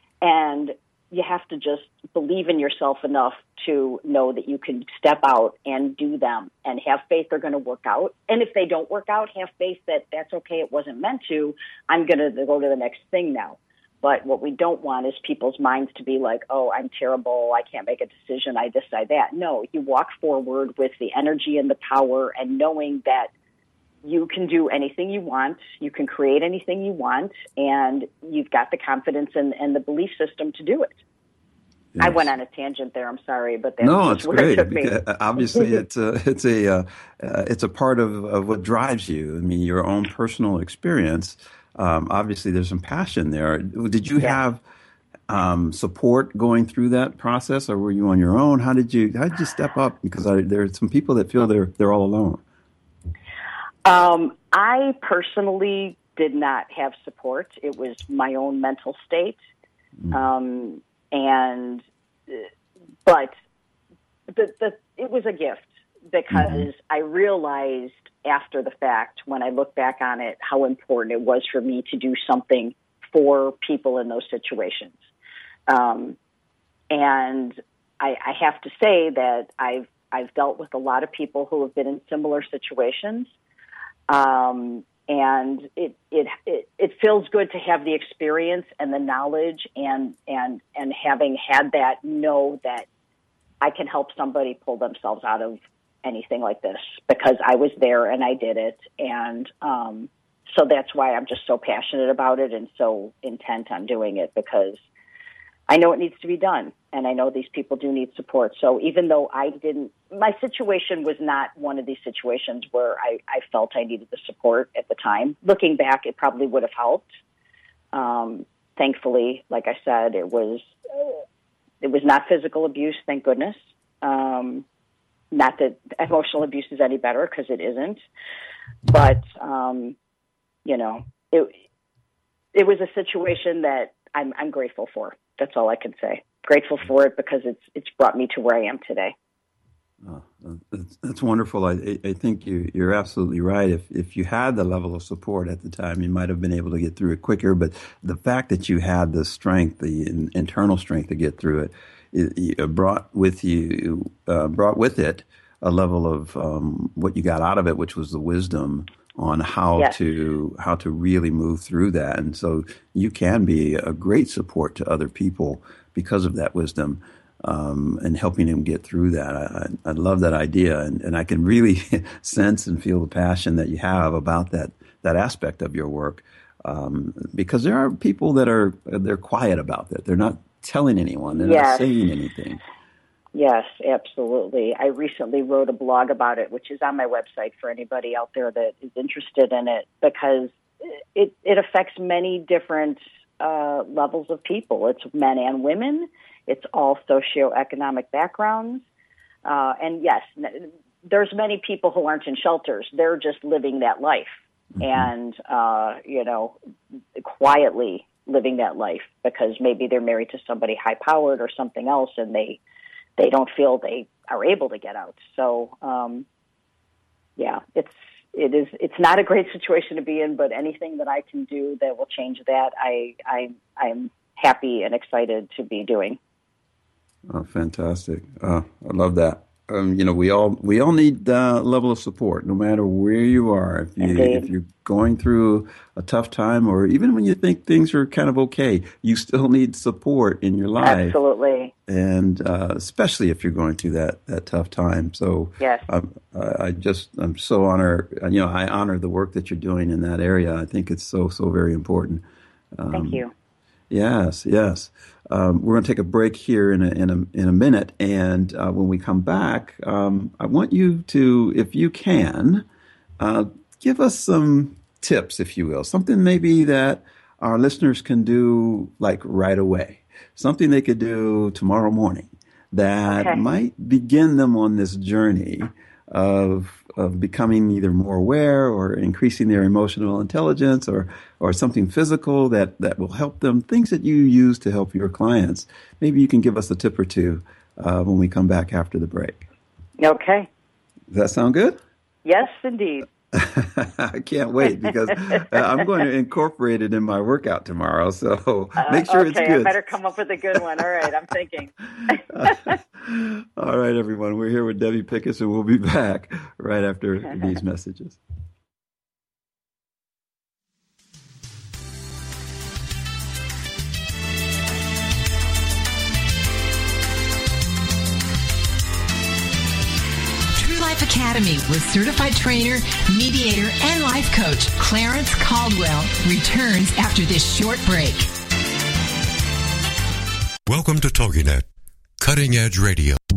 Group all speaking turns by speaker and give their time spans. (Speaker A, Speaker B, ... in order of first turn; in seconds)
Speaker A: 0.2-23.3, 24.0-30.9, 32.0-35.0, 35.5-35.8, 53.9-59.4, 60.1-62.5, 63.1-63.4, 64.3-75.0, 75.7-76.2, 76.9-83.3, 84.1-92.9, 93.6-104.8, 105.7-117.1, 117.9-121.2, 121.8-124.7, 125.3-128.0, 128.9-130.0, 130.7-131.6, 132.5-139.1, 181.4-181.8, 183.3-198.8, 199.4-206.6, 207.2-212.6, 213.2-216.2, 217.4-226.2, 234.0-234.5, 240.8-241.7, 245.6-245.9, 252.9-253.3, 273.1-273.4, 290.0-290.5, 292.2-293.1, 298.8-302.8
Speaker B: 32.0-32.3, 33.8-44.6, 45.3-52.4, 66.3-66.7, 140.0-182.6, 227.3-241.2, 241.9-252.2, 252.8-253.2, 253.9-262.7, 263.2-289.4, 291.1-291.8, 293.3-299.8, 302.3-308.2
Speaker C: 320.5-328.3
Speaker D: 330.7-331.7, 332.2-333.2